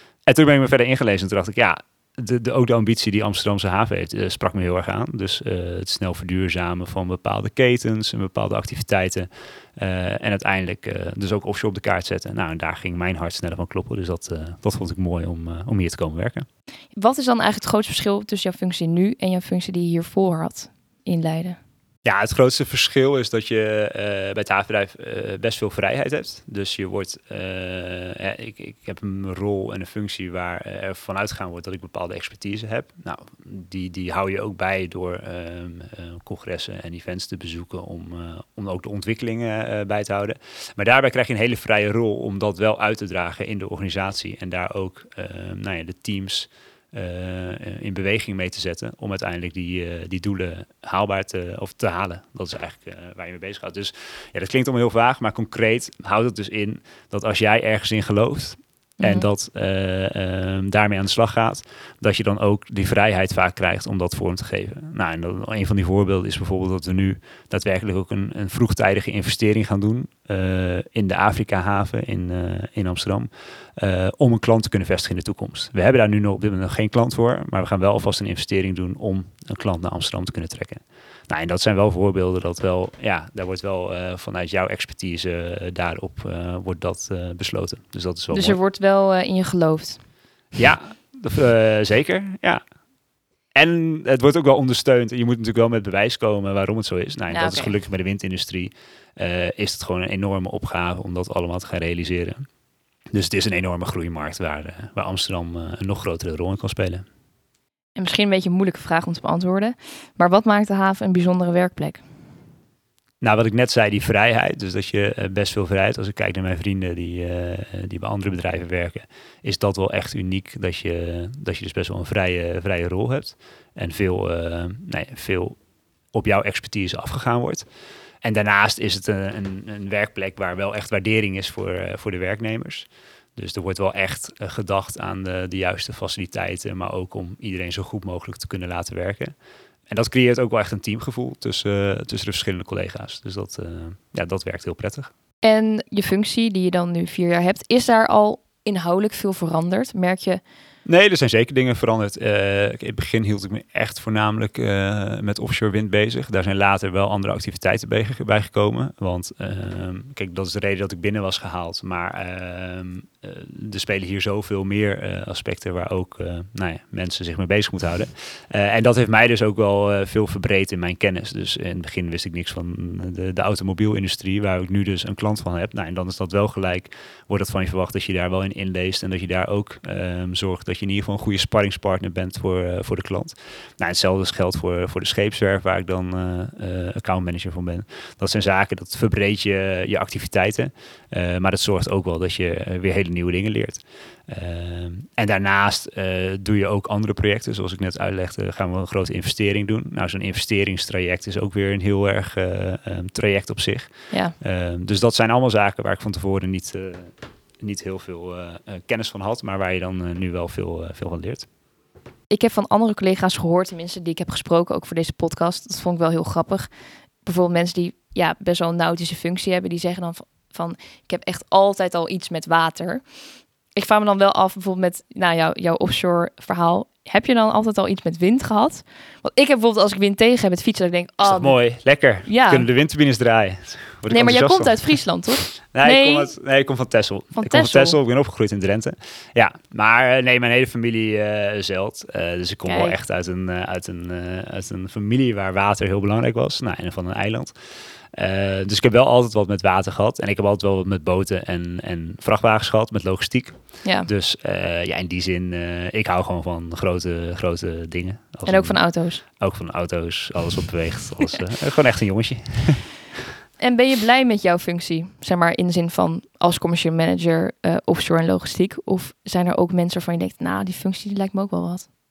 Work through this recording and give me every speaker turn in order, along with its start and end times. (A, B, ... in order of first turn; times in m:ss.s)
0:00.2-0:16.4 A
0:16.9-0:21.6 B
0:22.0-1:28.6 A
0:59.0-0:59.3 B
1:28.3-1:30.0 B
1:30.5-1:32.6 A
1:33.5-1:42.4 A
1:37.3-1:37.7 B
1:43.1-1:47.0 A
1:48.0-1:52.0 B
1:53.2-2:05.6 A
2:06.1-2:07.6 A
2:08.2-2:19.3 A
2:19.9-2:25.1 A
2:25.4-2:30.4 B
2:30.8-3:31.5 A
3:32.3-3:36.7 B
3:37.2-3:43.0 B
3:43.8-3:51.6 B
3:51.2-3:54.9 A
3:52.2-3:52.7 B
3:54.1-3:56.3 B
3:55.6-4:07.5 A
3:57.4-3:58.0 B
4:02.6-4:03.0 B
4:08.1-4:22.9 A
4:13.8-4:14.1 B
4:18.4-4:19.2 B
4:23.6-4:31.9 B